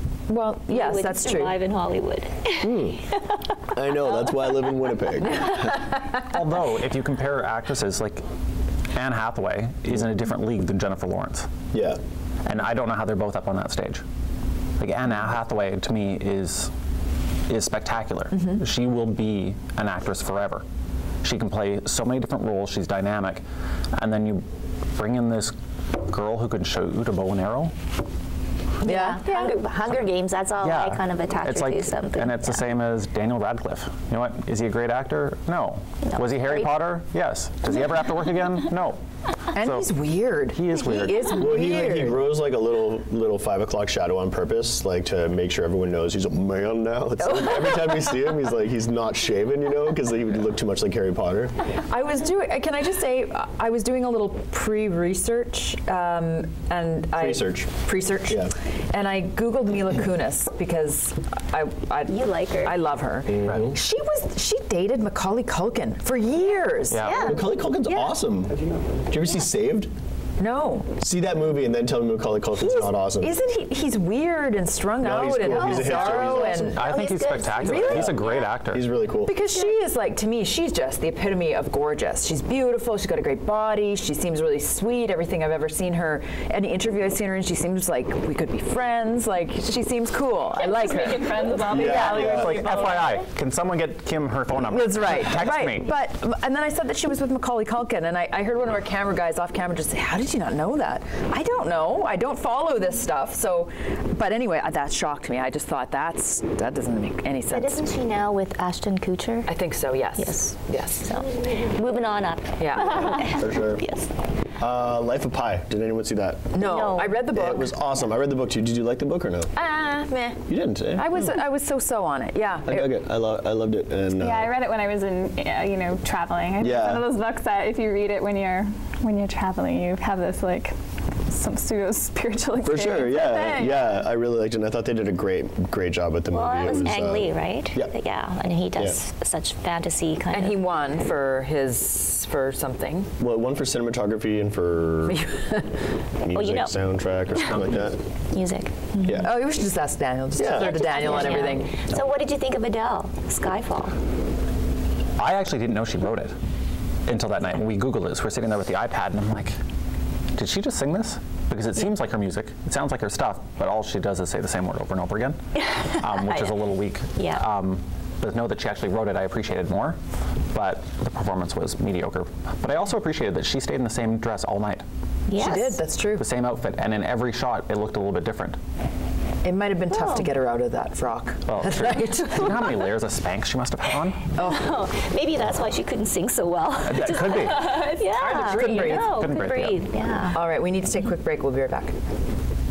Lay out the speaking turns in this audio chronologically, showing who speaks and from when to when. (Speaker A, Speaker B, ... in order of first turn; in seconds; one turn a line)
Speaker A: 0.3-1.6
Speaker B: 0.7-3.5
Speaker C: 2.6-3.0
Speaker C: 3.7-5.9
Speaker B: 4.1-4.6
Speaker A: 5.3-6.3
Speaker D: 6.3-8.2
Speaker D: 8.9-11.5
Speaker C: 11.7-12.0
Speaker D: 12.5-14.0
Speaker D: 14.8-16.7
Speaker D: 17.5-20.6
Speaker A: 18.3-18.6
Speaker D: 21.2-23.4
Speaker D: 24.0-24.4
Speaker D: 24.9-27.7
Speaker A: 28.8-29.6
Speaker B: 28.8-32.6
Speaker D: 30.6-39.9
Speaker B: 36.1-36.7
Speaker A: 39.5-42.2
Speaker D: 40.5-41.3
Speaker C: 41.3-51.7
Speaker A: 47.2-48.3
Speaker A: 51.9-67.2
Speaker C: 57.2-57.7
Speaker B: 62.1-62.8
Speaker C: 63.3-63.7
Speaker D: 66.9-67.3
Speaker B: 67.0-68.1
Speaker C: 67.2-69.9
Speaker A: 70.4-70.9
Speaker C: 71.0-73.3
Speaker A: 72.6-76.8
Speaker C: 75.0-76.6
Speaker B: 75.5-78.5
Speaker D: 76.6-78.9
Speaker A: 77.6-78.2
Speaker C: 77.8-78.2
Speaker C: 78.7-79.3
Speaker A: 79.2-91.9
Speaker E: 90.6-93.2
Speaker C: 91.7-92.7
Speaker D: 91.8-95.9
Speaker A: 94.6-107.8
Speaker B: 107.5-109.5
Speaker A: 109.5-111.2
Speaker B: 110.2-114.2
Speaker A: 112.6-113.4
Speaker C: 113.2-113.9
Speaker C: 114.6-116.5
Speaker A: 116.5-117.7
Speaker B: 116.6-117.2
Speaker C: 117.3-119.5
Speaker A: 119.6-122.9
Speaker C: 120.5-121.1
Speaker C: 122.7-124.5
Speaker E: 124.1-130.7
Speaker C: 126.6-127.1
Speaker E: 131.3-134.0
Speaker C: 132.6-137.9
Speaker B: 136.3-140.6
Speaker C: 138.8-139.0
Speaker A: 140.3-143.1
Speaker C: 143.2-145.2
Speaker A: 145.1-145.9
Speaker C: 146.2-148.0
Speaker B: 146.3-146.7
Speaker B: 148.3-149.3
Speaker C: 149.0-149.3
Speaker A: 149.2-151.8
Speaker C: 150.4-151.5
Speaker B: 150.5-153.9
Speaker D: 155.2-156.3
Speaker D: 157.1-159.5
Speaker D: 160.3-165.4
Speaker B: 165.6-167.4
Speaker D: 166.0-170.0
Speaker D: 170.5-174.8
Speaker B: 175.3-175.8
Speaker A: 175.4-176.3
Speaker D: 176.2-178.6
Speaker A: 179.4-182.8
Speaker B: 179.9-180.3
Speaker D: 181.5-184.3
Speaker A: 184.4-184.7
Speaker B: 184.4-190.4
Speaker D: 186.8-187.7
Speaker E: 187.3-189.1
Speaker A: 188.1-189.1
Speaker D: 189.0-189.8
Speaker A: 190.3-191.9